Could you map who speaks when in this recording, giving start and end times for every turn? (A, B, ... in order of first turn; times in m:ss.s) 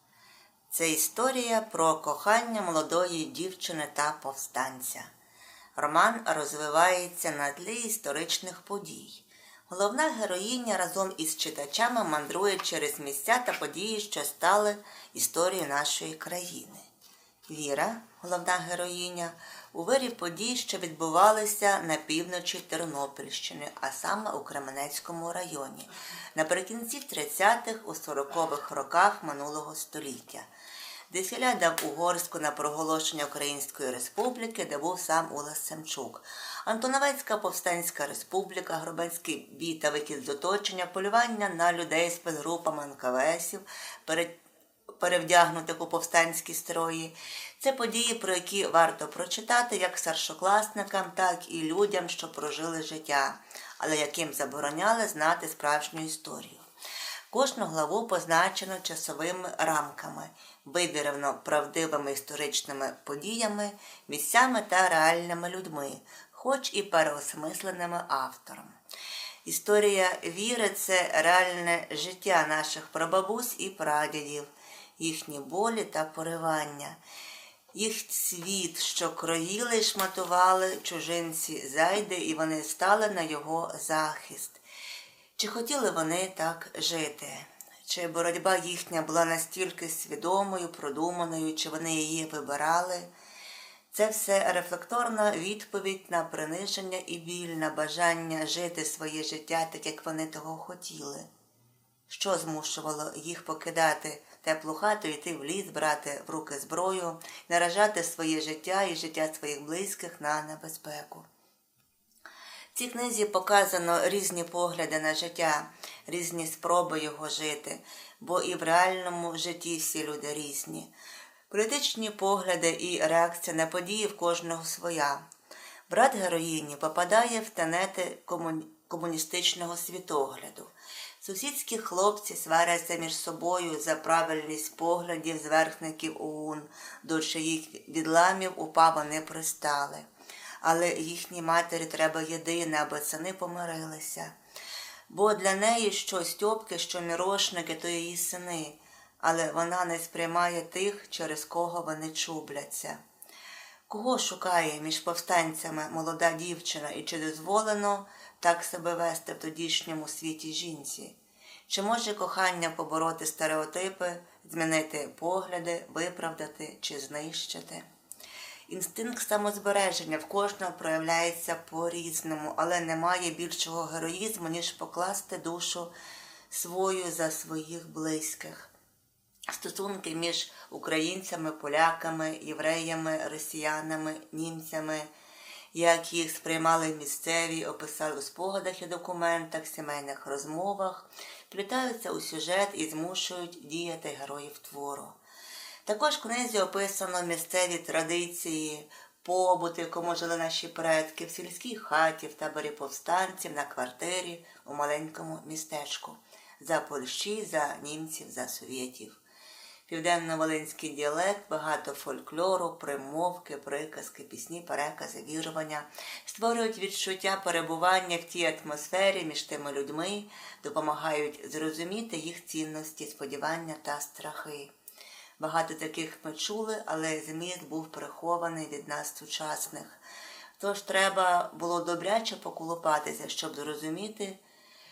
0:00.7-0:05.1 A
0:05.8-0:16.9 A
0:17.5-0:30.5 A
0:31.1-0:44.3 A
0:45.0-0:56.6 A
0:57.3-1:08.8 A
1:09.4-1:17.0 A
1:17.7-1:24.6 A
1:25.4-1:33.1 A
1:33.9-1:41.3 A
1:42.1-1:51.2 A
1:52.7-2:00.9 A
2:01.5-2:05.2 A
2:05.9-2:20.1 A
2:20.6-2:24.3 A
2:25.1-2:33.0 A
2:33.9-2:41.2 A
2:41.7-2:47.8 A
2:48.7-2:55.9 A
2:56.5-2:58.7 A
2:59.5-3:05.1 A
3:05.7-3:15.2 A
3:15.9-3:29.2 A
3:29.9-3:44.7 A
3:45.4-3:50.0 A
3:50.6-3:54.4 A